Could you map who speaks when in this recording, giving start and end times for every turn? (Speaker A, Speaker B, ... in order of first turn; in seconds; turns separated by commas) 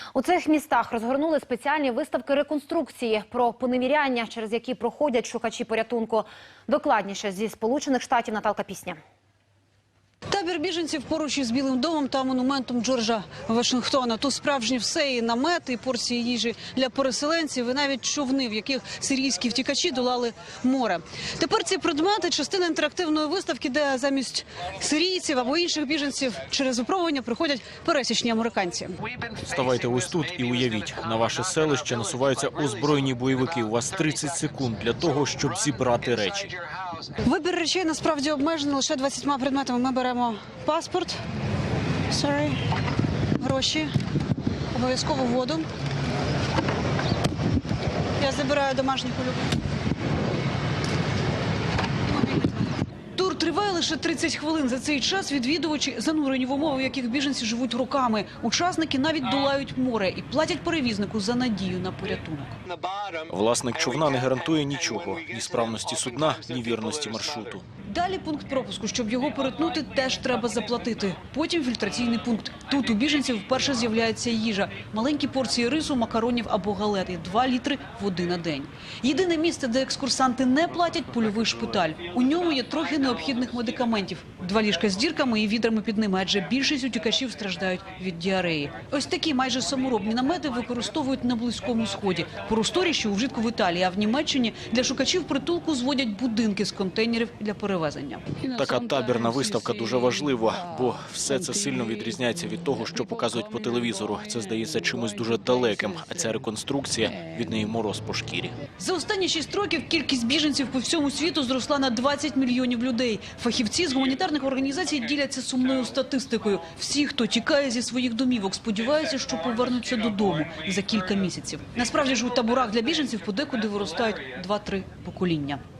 Speaker A: 0.1-9.0, Speaker B: 10.3-29.0, Speaker C: 29.4-36.5, Speaker B: 37.2-41.2, Speaker B: 42.1-42.6, Speaker B: 43.4-43.9, Speaker B: 44.7-45.7, Speaker B: 48.2-49.6, Speaker B: 52.1-62.6, Speaker C: 63.3-67.7, Speaker B: 67.9-98.3, Speaker C: 98.5-108.6, Speaker B: 108.8-125.6